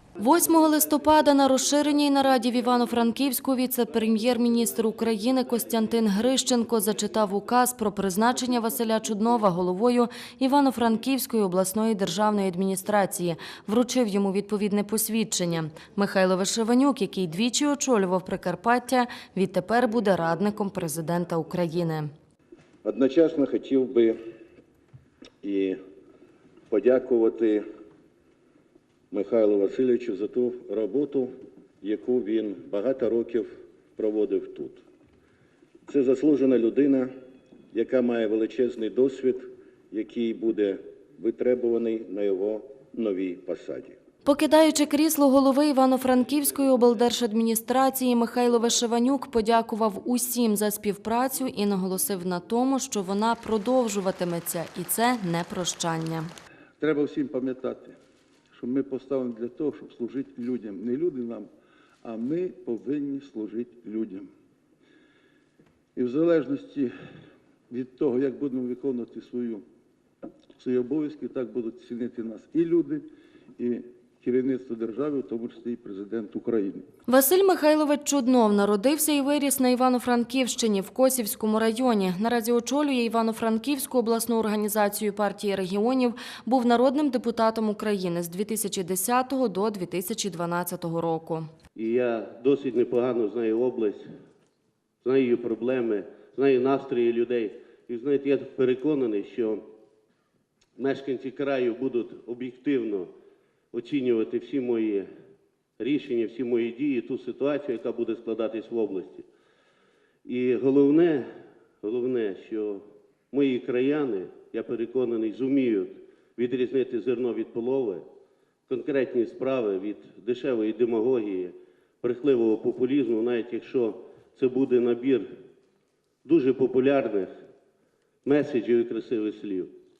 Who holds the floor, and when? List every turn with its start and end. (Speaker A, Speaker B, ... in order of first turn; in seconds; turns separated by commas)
Speaker A: 0.2-22.1, Speaker B: 22.8-24.2, Speaker B: 25.4-25.8, Speaker B: 26.7-27.6, Speaker B: 29.1-31.3, Speaker B: 31.8-34.8, Speaker B: 35.9-37.1, Speaker B: 37.7-44.0, Speaker A: 44.2-56.3, Speaker C: 56.8-57.9, Speaker C: 58.5-61.5, Speaker C: 62.0-64.3, Speaker C: 65.9-66.9, Speaker C: 67.7-69.6, Speaker C: 70.6-73.0, Speaker C: 73.6-76.9, Speaker A: 77.1-91.5, Speaker D: 91.8-94.0, Speaker D: 95.0-99.6, Speaker D: 100.8-103.1, Speaker D: 103.7-105.1, Speaker D: 105.8-109.2, Speaker D: 110.2-111.3, Speaker D: 111.8-118.0, Speaker D: 118.7-125.3, Speaker D: 126.2-127.3, Speaker D: 128.2-129.7